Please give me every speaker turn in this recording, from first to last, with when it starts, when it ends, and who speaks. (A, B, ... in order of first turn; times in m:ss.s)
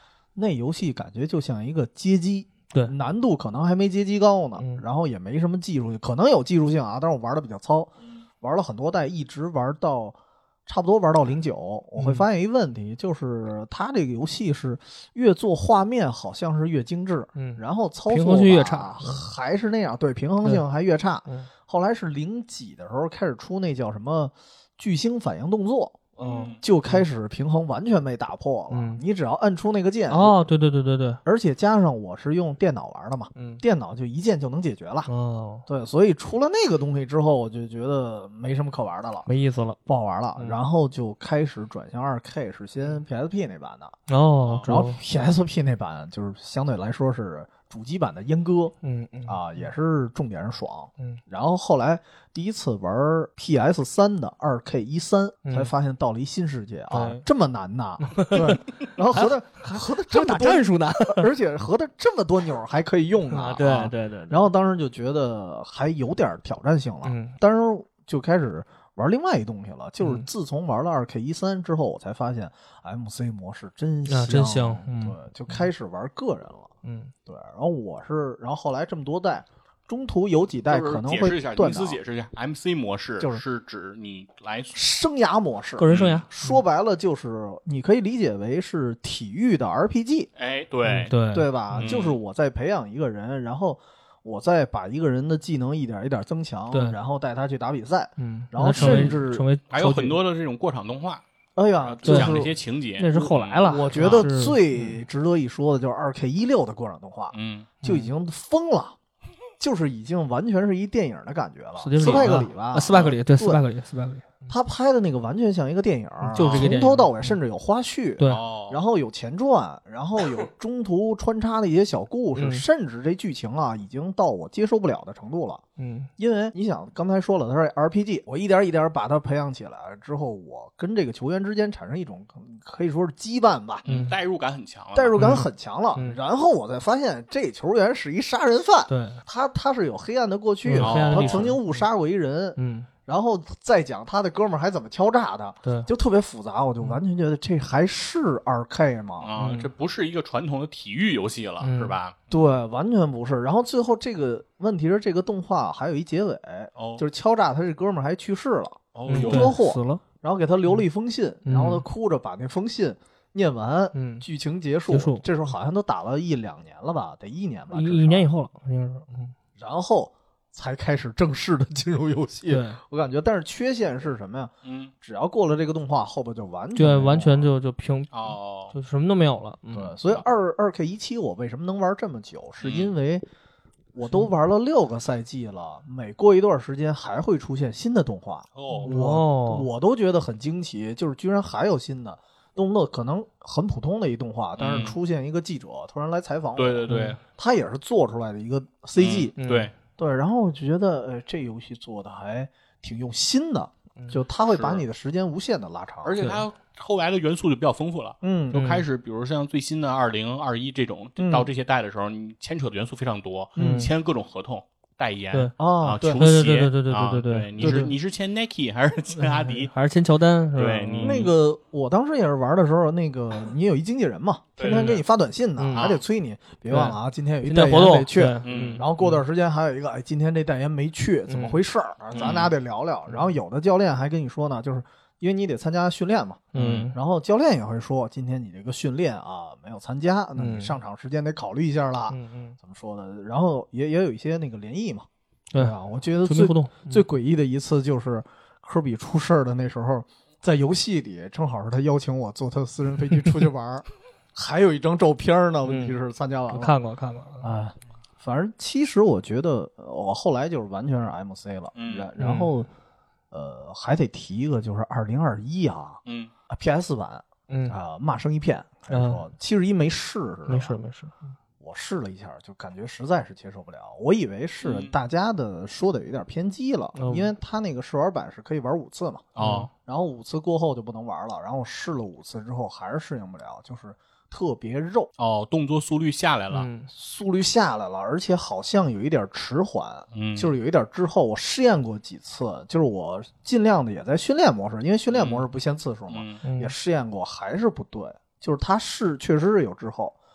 0:00.4-0:30.4 A
0:04.6-0:04.8 B
0:12.0-0:12.2 B
0:17.4-0:19.3 B
0:26.2-0:27.0 B
0:26.2-0:26.6 C
0:28.7-0:29.0 B
0:30.1-0:31.2 B
0:31.2-0:35.1 A
0:33.4-0:33.6 B
0:35.1-0:35.6 B
0:35.6-0:39.3 A
0:39.2-0:39.8 B
0:39.8-0:44.0 A
0:44.1-0:45.0 B
0:44.6-1:16.7 A
0:48.8-0:49.4 B
0:55.4-0:55.7 B
0:56.9-0:57.2 B
0:58.0-1:01.2 B
1:03.3-1:04.5 B
1:07.0-1:07.4 B
1:10.0-1:10.3 B
1:14.1-1:15.2 B
1:16.8-1:17.1 B
1:17.2-1:22.0 A
1:20.7-1:24.8 C
1:24.7-1:30.3 A
1:25.8-1:26.6 B
1:25.9-1:26.2 C
1:30.4-1:31.2 C
1:30.9-1:31.9 B
1:31.3-1:39.5 A
1:31.7-1:32.2 C
1:36.7-1:37.0 B
1:38.2-1:40.2 B
1:38.7-1:41.2 C
1:41.6-1:42.5 A
1:41.8-1:44.3 C
1:42.0-1:45.0 B
1:43.6-1:49.0 A
1:47.3-1:47.7 C
1:47.8-1:48.1 B
1:49.6-1:53.6 A
1:51.8-1:54.4 B
1:52.0-1:52.4 C
1:54.5-2:05.6 A
1:56.2-1:57.3 B
1:56.4-1:56.7 C
1:58.2-1:58.4 B
1:58.3-1:58.8 C
2:02.4-2:02.6 B
2:05.8-2:06.1 B
2:06.2-2:13.8 A
2:13.8-2:15.4 C
2:13.9-2:14.2 B
2:14.9-2:29.3 A
2:15.2-2:16.2 B
2:18.9-2:19.2 B
2:20.6-2:21.8 B
2:20.8-2:21.5 C
2:22.6-2:22.9 B
2:29.2-2:32.2 C
2:29.4-2:29.7 B
2:31.6-2:32.0 B
2:32.3-2:48.3 A
2:36.8-2:37.0 C
2:38.9-2:39.5 C
2:39.1-2:40.0 B
2:41.4-2:41.8 B
2:43.9-2:44.2 B
2:44.9-2:45.2 B
2:47.7-2:49.3 B
2:49.6-2:57.5 A
2:52.5-2:52.8 B
2:54.6-2:54.9 C
2:56.7-2:59.9 B
2:58.1-2:58.7 C
2:59.7-3:03.2 A
3:02.6-3:02.9 C
3:03.9-3:19.3 A
3:08.5-3:08.9 C
3:08.7-3:09.7 B
3:14.6-3:15.0 C
3:16.6-3:17.2 C
3:16.9-3:17.2 B
3:19.0-3:19.7 C
3:19.4-3:19.7 B
3:20.0-3:26.2 A
3:24.5-3:24.8 C
3:26.0-3:39.7 C
3:26.2-3:26.4 B
3:28.2-3:28.7 A
3:28.5-3:28.8 B
3:31.2-3:31.5 A
3:33.6-3:33.9 A
3:33.6-3:33.9 B
3:35.6-3:36.2 A
3:36.0-3:37.9 B
3:37.6-3:37.9 A
3:39.2-3:41.3 B
3:40.5-3:41.3 C
3:41.0-4:16.8 A
3:44.6-3:45.0 C
3:44.6-3:45.0 B
3:45.6-3:45.9 B
3:45.7-3:46.0 C
3:46.7-3:49.2 B
3:48.4-3:48.8 C
3:51.3-3:51.6 B
3:52.1-3:52.5 C
3:53.1-3:53.3 B
3:56.5-3:56.9 C
3:56.5-3:57.0 B
4:00.4-4:00.8 B
4:02.1-4:02.6 B
4:05.5-4:07.0 B
4:15.6-4:16.0 B
4:16.5-4:17.5 B
4:17.4-4:22.7 A
4:21.7-4:22.1 C
4:22.2-4:22.5 B
4:23.3-4:30.8 A
4:26.0-4:26.3 C
4:27.5-4:27.8 B
4:28.9-4:29.2 B
4:30.5-4:31.3 B
4:31.6-4:45.1 A
4:34.6-4:34.9 C
4:37.0-4:37.3 B
4:39.3-4:39.7 C
4:39.4-4:39.7 B
4:45.2-4:46.7 C
4:46.5-4:46.9 B
4:46.9-5:00.2 A
4:50.1-4:50.5 C
4:55.1-4:55.5 C
4:56.1-4:56.4 C
4:56.4-4:56.7 B